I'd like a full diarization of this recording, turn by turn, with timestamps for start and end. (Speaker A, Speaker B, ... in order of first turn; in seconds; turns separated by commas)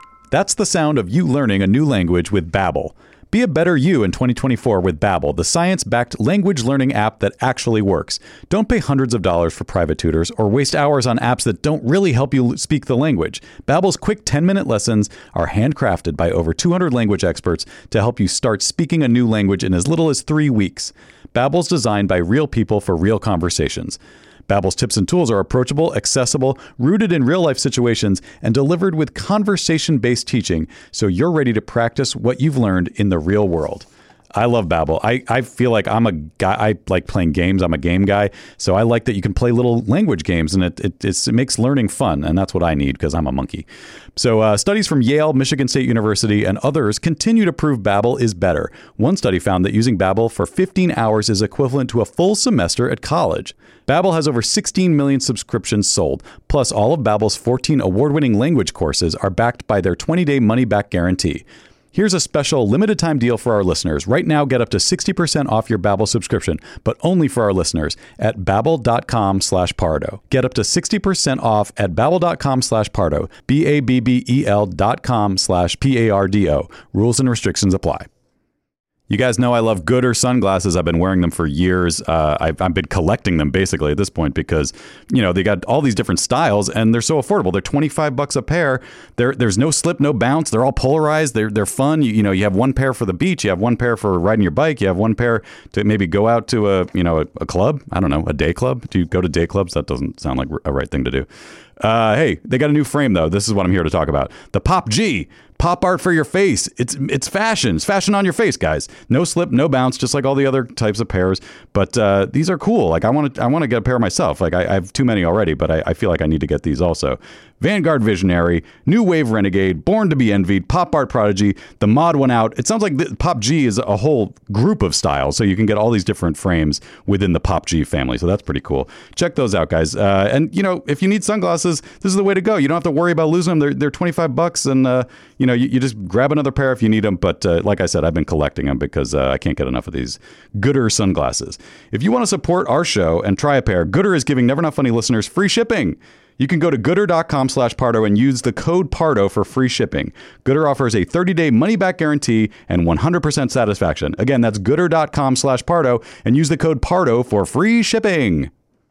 Speaker A: 0.3-78.1, Speaker A: 79.1-101.3, Speaker A: 101.8-158.5